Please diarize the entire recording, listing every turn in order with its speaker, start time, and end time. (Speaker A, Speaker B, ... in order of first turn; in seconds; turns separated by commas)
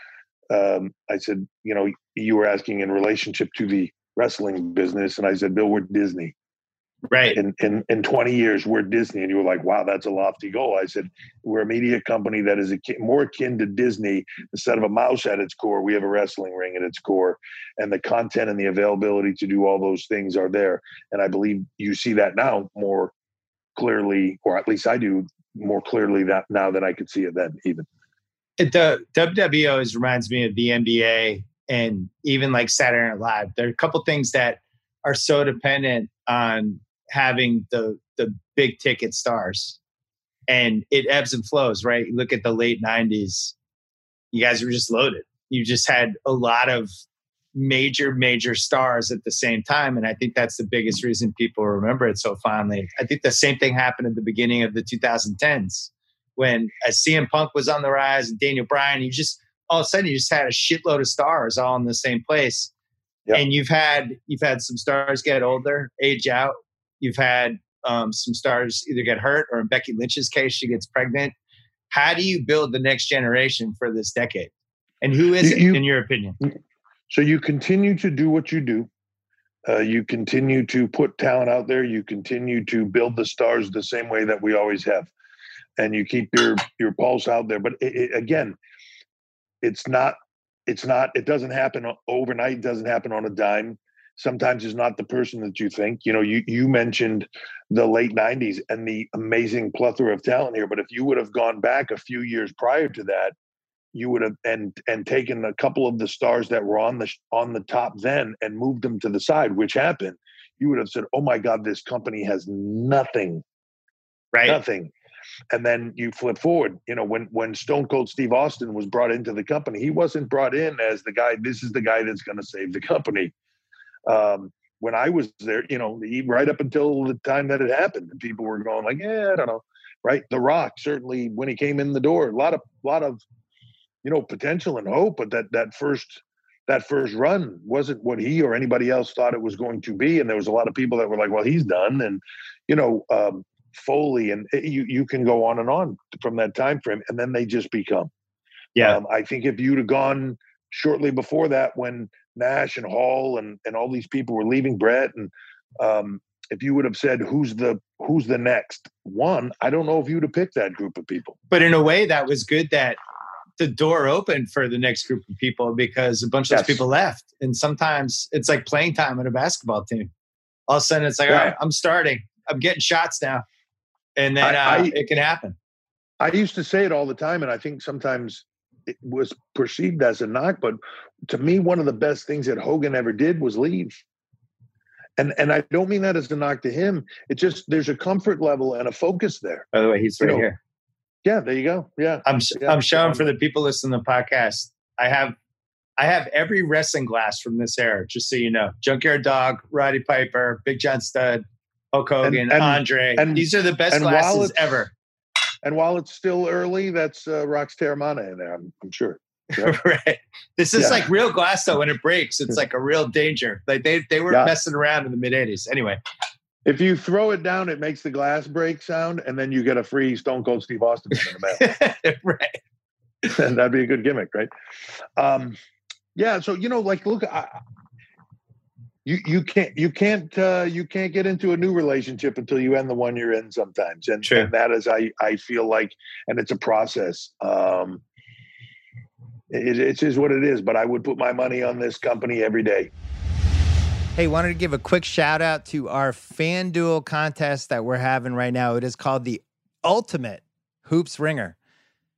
Speaker A: 0.5-6.3, Speaker B: 7.1-7.4, Speaker A: 7.3-23.1, Speaker A: 23.8-27.9, Speaker B: 28.6-39.8, Speaker B: 40.5-43.5, Speaker B: 44.3-46.9, Speaker B: 47.5-62.7, Speaker B: 63.3-71.3, Speaker B: 71.9-74.5, Speaker B: 75.0-76.4, Speaker A: 75.4-75.8, Speaker A: 77.1-78.9, Speaker A: 79.7-85.1, Speaker A: 85.8-88.5, Speaker A: 89.6-103.3, Speaker A: 103.9-113.4, Speaker B: 114.3-114.6, Speaker A: 114.5-114.9, Speaker A: 115.5-123.3, Speaker A: 124.1-133.2, Speaker A: 134.0-148.1, Speaker A: 148.8-161.3, Speaker B: 161.5-163.0, Speaker B: 163.6-170.1, Speaker A: 166.5-166.8, Speaker B: 170.7-173.4, Speaker A: 171.3-171.6, Speaker B: 174.2-175.6, Speaker A: 174.4-174.9, Speaker A: 176.2-184.0, Speaker A: 185.2-189.7, Speaker B: 189.7-190.6, Speaker A: 191.2-193.2, Speaker B: 192.2-195.3, Speaker B: 196.0-204.9, Speaker A: 202.2-204.7, Speaker A: 205.6-209.7, Speaker B: 209.6-216.0, Speaker A: 210.8-211.1, Speaker A: 216.7-221.6, Speaker B: 221.6-222.6, Speaker A: 223.3-224.5, Speaker A: 225.2-225.6, Speaker A: 226.1-227.6, Speaker A: 229.0-238.0, Speaker B: 234.2-234.5, Speaker A: 239.5-242.9, Speaker C: 244.2-251.6